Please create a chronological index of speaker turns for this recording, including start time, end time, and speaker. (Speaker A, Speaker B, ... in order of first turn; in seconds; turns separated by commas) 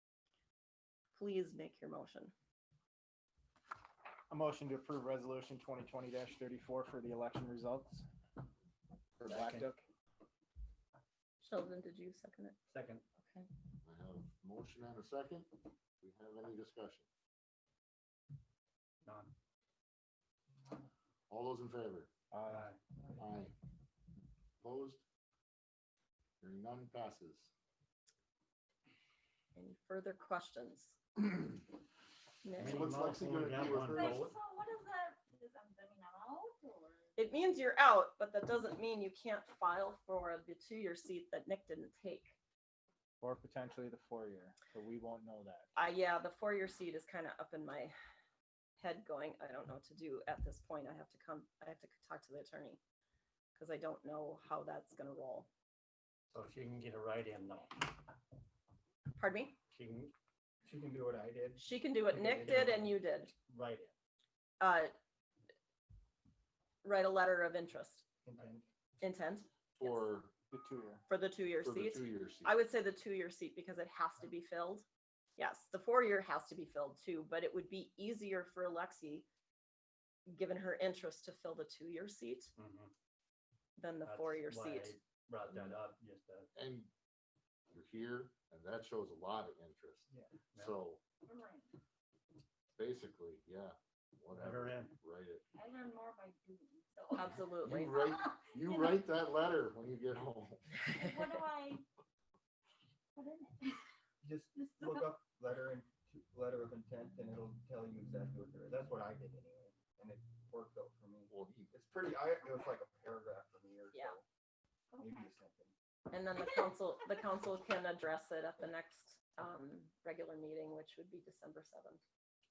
Speaker A: 1.1-2.3, Speaker B: 4.3-8.1, Speaker B: 9.2-9.8, Speaker C: 9.2-9.7, Speaker A: 11.4-12.6, Speaker C: 12.7-13.0, Speaker D: 13.8-17.1, Speaker C: 19.0-19.3, Speaker D: 21.3-22.1, Speaker B: 22.3-22.7, Speaker C: 22.4-22.8, Speaker D: 23.2-23.6, Speaker D: 24.6-25.0, Speaker D: 26.4-27.5, Speaker A: 29.6-31.0, Speaker A: 32.4-32.9, Speaker C: 32.5-34.4, Speaker D: 32.7-34.3, Speaker E: 33.9-37.2, Speaker A: 37.2-42.4, Speaker B: 43.2-45.7, Speaker A: 45.8-48.0, Speaker A: 48.8-52.8, Speaker A: 53.6-55.5, Speaker C: 56.3-58.0, Speaker A: 59.2-59.6, Speaker C: 59.7-60.1, Speaker F: 60.6-62.9, Speaker A: 61.6-63.3, Speaker C: 63.5-63.9, Speaker A: 64.6-64.9, Speaker A: 66.8-68.1, Speaker F: 68.2-68.6, Speaker A: 69.0-70.1, Speaker D: 69.8-70.3, Speaker B: 70.5-71.0, Speaker A: 71.1-74.9, Speaker D: 71.6-72.5, Speaker A: 75.4-79.3, Speaker A: 80.3-82.5, Speaker C: 82.6-82.9, Speaker A: 83.8-85.0, Speaker C: 84.0-86.5, Speaker D: 86.5-86.9, Speaker D: 87.7-91.0, Speaker F: 90.1-90.3, Speaker E: 91.2-91.7, Speaker D: 92.8-95.4, Speaker C: 94.3-95.0, Speaker E: 95.5-97.5, Speaker A: 97.1-98.1, Speaker D: 97.6-100.8, Speaker E: 98.1-99.0, Speaker E: 100.9-101.8, Speaker A: 101.0-101.4, Speaker E: 103.2-103.8, Speaker F: 104.2-114.2, Speaker E: 104.6-105.1, Speaker D: 111.3-111.8, Speaker E: 114.9-115.3, Speaker F: 115.0-115.7, Speaker A: 116.1-122.0